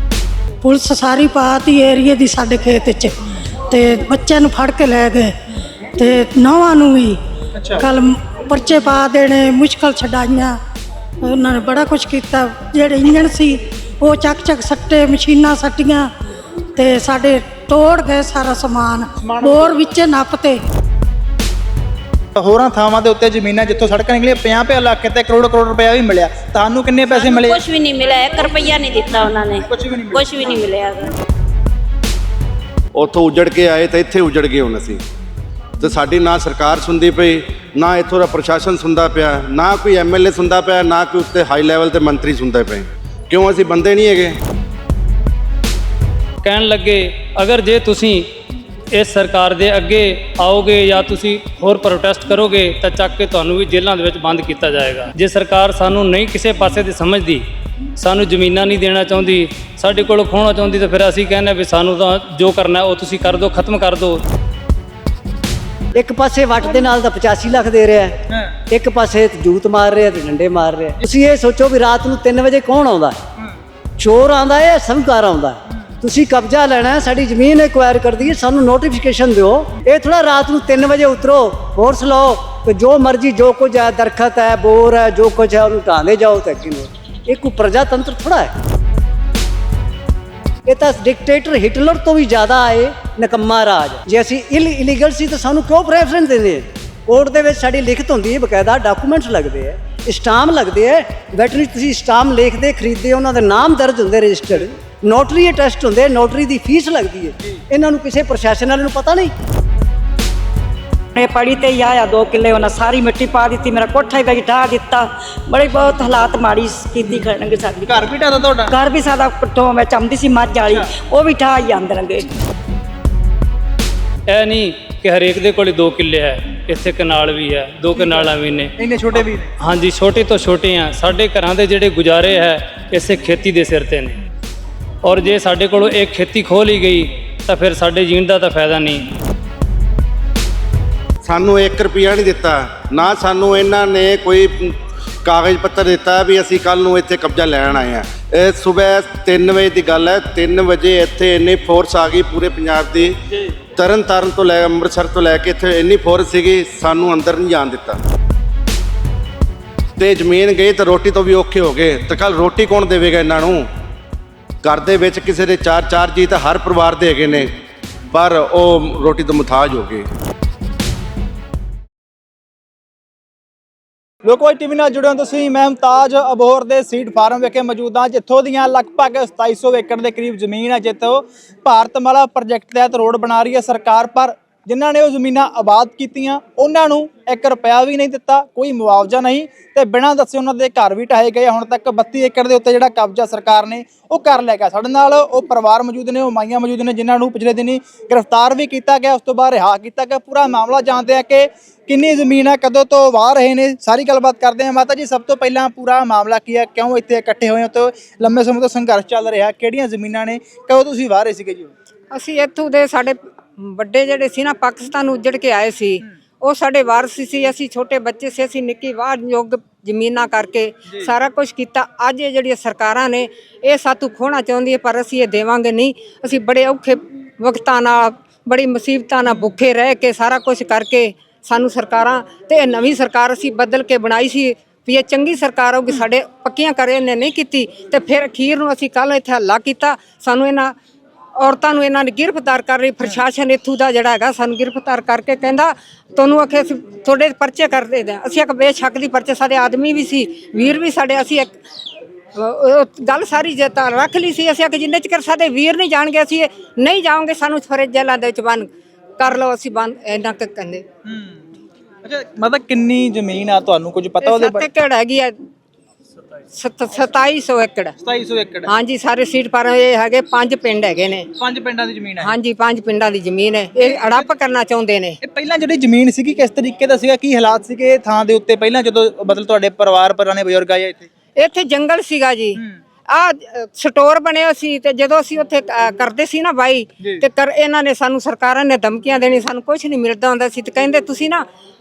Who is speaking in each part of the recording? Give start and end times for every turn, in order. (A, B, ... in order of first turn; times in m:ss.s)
0:00.6-0:03.1 A
0:03.7-0:05.3 A
0:06.0-0:07.2 A
0:07.6-0:07.9 B
0:07.8-0:10.6 A
0:11.2-0:16.1 A
0:16.8-0:20.6 A
0:19.2-0:19.9 B
0:22.3-0:27.6 B
0:27.1-0:31.1 C
0:29.7-0:30.2 B
0:32.9-0:35.0 D
0:35.8-0:44.4 D
0:46.4-0:48.3 E
0:48.9-0:57.4 E
0:58.0-1:04.2 E
1:05.9-1:13.2 F
1:14.0-1:28.5 F
1:30.6-1:49.3 F
1:51.1-1:57.8 G
1:57.8-1:58.7 B
1:58.7-2:02.3 G
2:04.3-2:08.7 E
2:07.9-2:09.5 B
2:09.6-2:14.2 E
2:15.0-2:19.0 E
2:21.2-2:33.2 D
2:33.8-2:38.0 D
2:40.0-2:43.7 D
2:44.6-2:47.5 D
2:48.1-2:50.1 D
2:54.2-3:31.7 B
3:32.1-4:00.8 H
4:01.4-4:11.6 H
4:12.3-4:20.8 H
4:21.0-4:21.4 B
4:22.0-4:24.6 B
4:24.2-4:25.4 H
4:26.5-4:27.9 H
4:28.0-4:28.7 B
4:28.7-4:31.3 H
4:31.4-4:32.3 B
4:32.2-4:35.2 H
4:33.8-4:34.3 B
4:35.2-4:41.1 B
4:41.4-4:51.4 H